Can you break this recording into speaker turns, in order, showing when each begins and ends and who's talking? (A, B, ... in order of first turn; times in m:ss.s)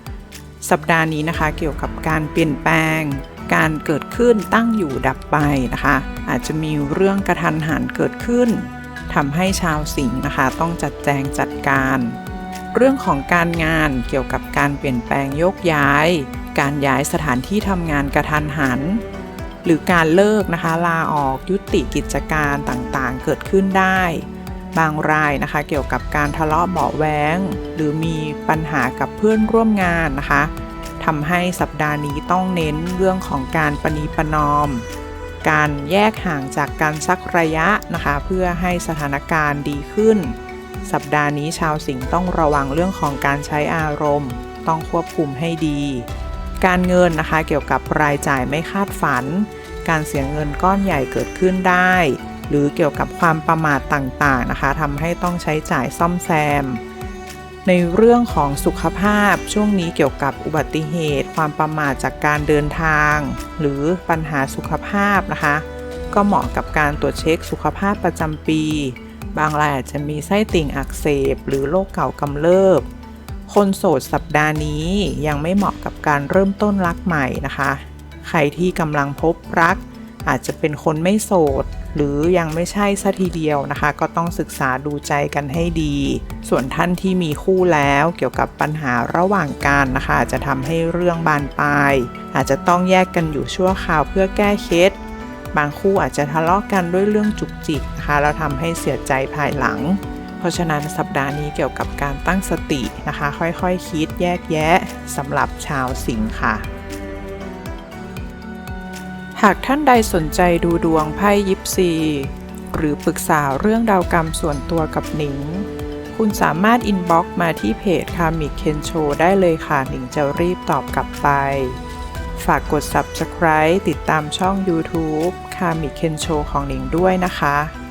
0:00.6-0:12.2 A
0:12.7-0:19.0 A
0:19.6-0:34.9 A
0:35.4-0:46.1 A
0:46.6-0:56.8 A
0:57.6-1:12.9 A
1:13.5-1:35.0 A
1:35.5-1:46.7 A
1:49.4-2:01.8 A
2:02.4-2:07.7 A